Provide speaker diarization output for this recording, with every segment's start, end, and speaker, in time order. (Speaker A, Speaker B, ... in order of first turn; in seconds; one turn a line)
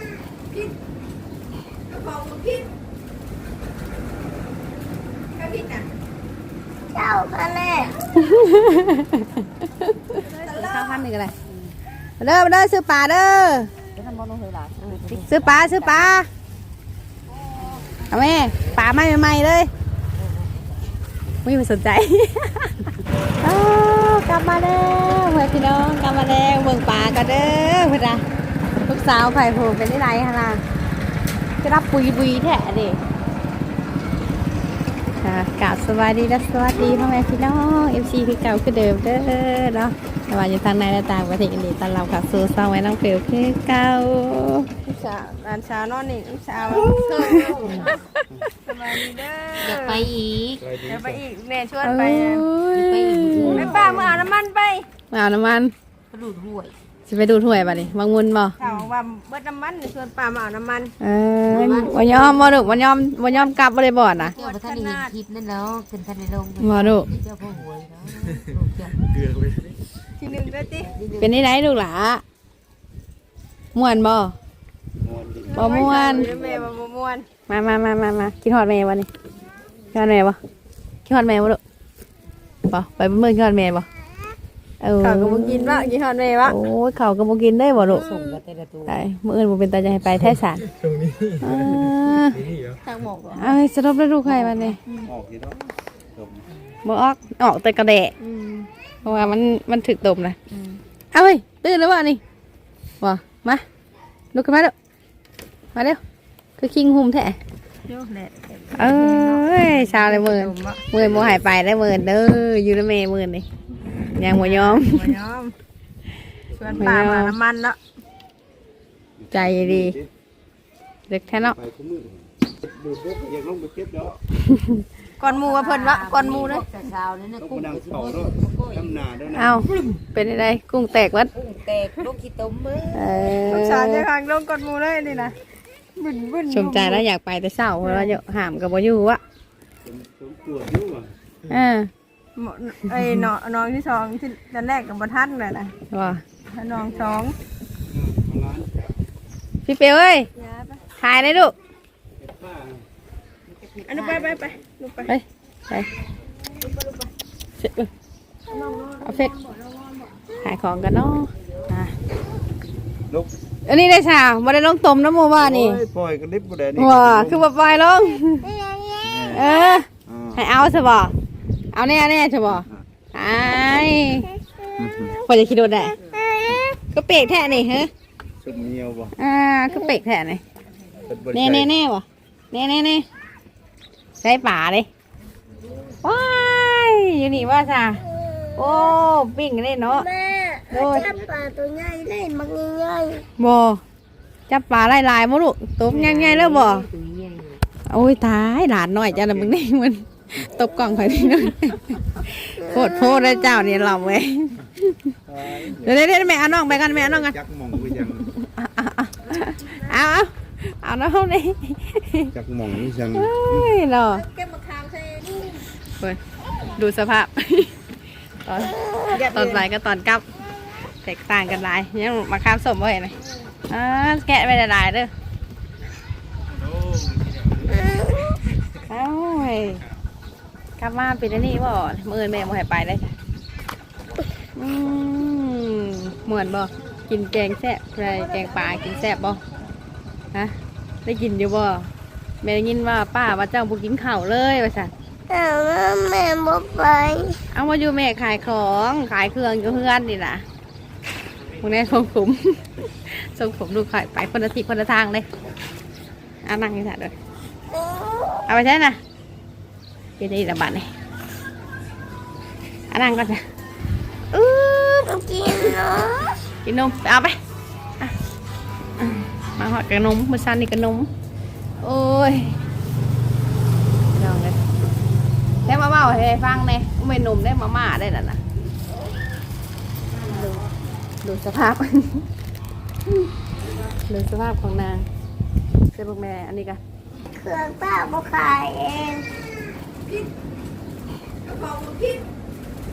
Speaker A: 1.9-2.7
Speaker A: 5.3-5.9
Speaker B: 6.9-8.0
Speaker C: 8.2-11.3
Speaker A: 10.2-11.0
Speaker C: 12.2-13.7
Speaker D: 14.0-16.1
Speaker A: 14.9-15.2
Speaker C: 15.3-16.3
Speaker D: 17.6-18.0
Speaker C: 18.1-19.7
Speaker D: 20.1-20.7
Speaker C: 21.4-22.9
Speaker C: 23.4-28.2
Speaker C: 28.8-30.6
Speaker C: 31.6-33.0
Speaker C: 35.2-44.7
Speaker A: 44.9-47.9
Speaker D: 46.7-47.9
Speaker C: 47.2-48.0
Speaker A: 48.7-50.1
Speaker D: 49.6-50.6
Speaker E: 50.6-51.2
Speaker A: 50.9-52.5
Speaker C: 51.8-54.0
Speaker D: 52.7-54.1
Speaker E: 53.4-54.2
Speaker A: 53.5-54.9
Speaker C: 55.1-55.7
Speaker D: 56.1-56.8
Speaker C: 57.1-58.5
Speaker A: 58.6-60.9
Speaker C: 61.0-64.3
Speaker D: 61.5-62.8
Speaker A: 64.2-65.2
Speaker D: 64.3-69.0
Speaker C: 66.6-67.1
Speaker E: 69.2-69.7
Speaker A: 70.2-70.9
Speaker D: 70.8-71.4
Speaker C: 71.2-72.2
Speaker C: 73.8-74.3
Speaker E: 75.0-76.7
Speaker A: 75.5-77.3
Speaker C: 75.5-76.3
Speaker C: 77.5-79.1
Speaker C: 79.9-80.4
Speaker C: 81.1-81.6
Speaker C: 82.7-83.9
Speaker C: 84.8-85.9
Speaker A: 85.0-86.5
Speaker C: 86.4-88.0
Speaker D: 87.9-89.0
Speaker C: 88.9-90.7
Speaker E: 90.7-92.8
Speaker C: 91.4-92.4
Speaker A: 92.8-93.6
Speaker C: 93.4-94.8
Speaker D: 94.3-94.5
Speaker E: 95.1-96.5
Speaker C: 96.8-98.1
Speaker A: 98.2-98.7
Speaker C: 99.0-100.4
Speaker A: 100.5-100.8
Speaker C: 101.1-102.2
Speaker C: 103.0-103.6
Speaker C: 104.3-104.7
Speaker C: 105.8-106.0
Speaker C: 106.6-107.4
Speaker A: 107.9-110.8
Speaker C: 108.8-113.5
Speaker E: 110.9-111.5
Speaker C: 114.2-115.1
Speaker A: 114.3-115.5
Speaker E: 116.5-116.9
Speaker A: 116.6-117.8
Speaker C: 116.8-117.4
Speaker E: 119.2-120.1
Speaker C: 119.3-120.0
Speaker C: 121.1-121.6
Speaker E: 121.4-124.2
Speaker C: 124.5-124.8
Speaker A: 125.2-126.7
Speaker D: 125.2-129.1
Speaker E: 127.4-129.7
Speaker C: 129.3-131.3
Speaker D: 131.3-133.4
Speaker C: 132.9-134.1
Speaker A: 133.5-135.3
Speaker A: 136.0-137.0
Speaker C: 136.5-139.2
Speaker A: 137.8-138.2
Speaker E: 139.8-141.1
Speaker C: 141.5-141.9
Speaker A: 142.4-145.7
Speaker C: 145.9-146.2
Speaker A: 146.5-147.3
Speaker E: 147.9-148.9
Speaker C: 149.7-150.3
Speaker A: 150.4-150.8
Speaker C: 151.0-151.6
Speaker E: 152.2-152.8
Speaker D: 153.5-154.6
Speaker A: 153.9-155.1
Speaker C: 155.1-155.9
Speaker A: 156.6-157.1
Speaker C: 157.6-157.9
Speaker A: 158.5-160.1
Speaker C: 159.0-159.3
Speaker C: 160.4-161.9
Speaker C: 163.7-165.8
Speaker E: 165.4-167.5
Speaker C: 166.8-168.5
Speaker B: 168.4-169.8
Speaker E: 169.0-169.5
Speaker C: 169.3-171.1
Speaker E: 170.1-170.4
Speaker C: 171.7-174.2
Speaker B: 174.3-175.3
Speaker E: 174.8-175.2
Speaker C: 175.3-176.0
Speaker B: 176.0-176.8
Speaker C: 176.9-177.9
Speaker E: 178.4-179.1
Speaker C: 179.2-180.4
Speaker E: 181.1-181.7
Speaker C: 181.3-183.1
Speaker C: 184.2-184.9
Speaker C: 186.0-188.0
Speaker B: 188.1-188.9
Speaker C: 188.6-190.1
Speaker B: 189.9-193.2
Speaker C: 190.7-191.1
Speaker C: 193.4-193.8
Speaker C: 194.5-196.9
Speaker D: 195.9-197.6
Speaker C: 197.9-204.6
Speaker E: 199.1-199.6
Speaker B: 200.6-201.5
Speaker B: 202.6-203.8
Speaker E: 205.3-208.3
Speaker C: 205.8-207.3
Speaker C: 207.9-212.3
Speaker E: 212.3-213.8
Speaker C: 213.1-214.2
Speaker A: 214.3-215.3
Speaker C: 216.8-217.8
Speaker C: 218.4-220.2
Speaker A: 219.1-219.6
Speaker C: 221.0-223.2
Speaker C: 223.7-225.1
Speaker E: 226.6-227.8
Speaker C: 228.9-229.8
Speaker C: 230.8-233.1
Speaker C: 234.6-239.4
Speaker B: 238.0-239.3
Speaker C: 240.3-241.9
Speaker C: 242.4-244.9
Speaker B: 245.3-247.4
Speaker C: 247.5-250.4
Speaker C: 251.6-255.3
Speaker C: 256.4-257.1
Speaker B: 257.7-258.5
Speaker C: 258.5-259.0
Speaker C: 260.2-260.9
Speaker C: 262.9-263.4
Speaker B: 264.3-266.4
Speaker C: 266.6-267.4
Speaker C: 269.0-271.1
Speaker C: 271.8-272.6
Speaker C: 274.1-274.6
Speaker C: 275.7-278.4
Speaker A: 280.1-280.7
Speaker C: 280.3-280.6
Speaker C: 281.2-282.3
Speaker C: 284.0-285.1
Speaker C: 285.9-286.8
Speaker B: 287.3-289.2
Speaker A: 290.1-290.3
Speaker A: 291.5-292.2